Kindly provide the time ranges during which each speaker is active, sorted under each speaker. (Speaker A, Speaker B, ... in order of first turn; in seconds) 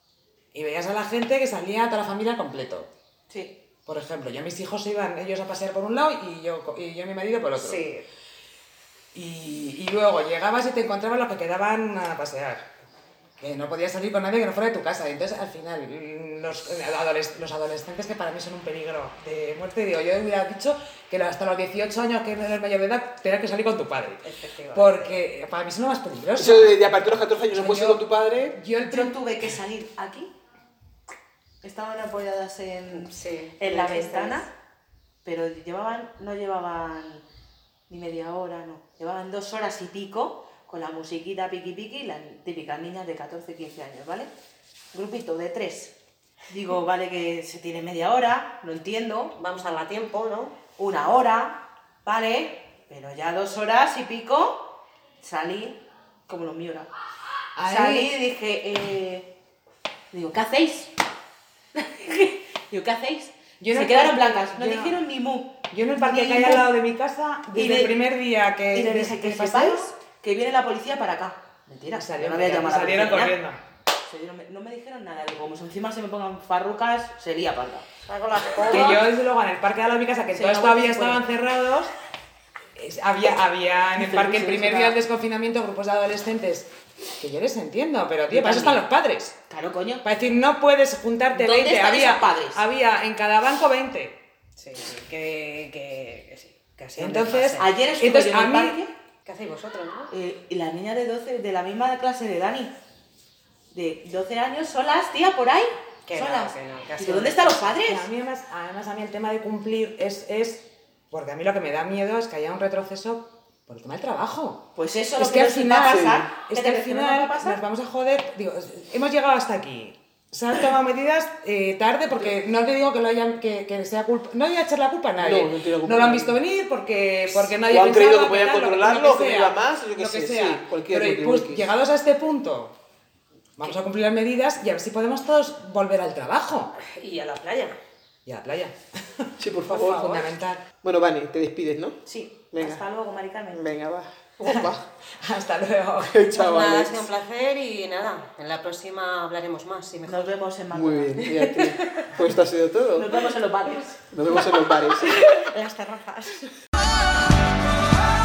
Speaker A: 0.5-2.9, 3.9-7.8, 9.1-12.6, 13.4-26.8, 27.5-29.2, 57.5-58.1, 63.6-65.0, 65.7-69.9, 71.9-73.6, 78.6-81.9, 82.8-89.3, 90.0-94.2, 97.0-98.8, 107.8-114.6, 115.2-132.7, 133.6-136.7, 138.2-140.6, 144.4-146.3
Speaker B: 7.5-8.0, 24.2-25.2, 32.9-34.5, 49.3-50.5, 78.0-79.0, 94.6-97.7, 99.2-100.1, 106.0-107.8, 136.8-137.8, 146.3-150.3, 155.1-156.5
Speaker C: 26.4-28.6, 115.8-116.3, 125.2-126.4, 127.6-131.7, 139.4-140.3, 140.8-142.0, 142.5-142.8, 143.5-144.8, 146.1-147.1, 150.7-153.1, 154.1-155.2
Speaker D: 28.8-30.3, 31.6-34.5, 35.2-37.2, 37.9-44.3, 44.9-45.9, 46.5-49.3, 50.8-56.9, 57.6-59.3, 60.1-60.9, 61.7-66.7, 67.5-67.9, 68.7-73.3, 74.0-77.8, 78.6-79.0, 80.3-81.2, 84.0-85.0, 88.3-88.8, 89.5-90.0, 91.3-92.6, 97.6-98.9, 100.1-102.7, 103.7-108.1, 114.8-117.6, 142.1-143.6, 150.1-151.4, 152.9-154.7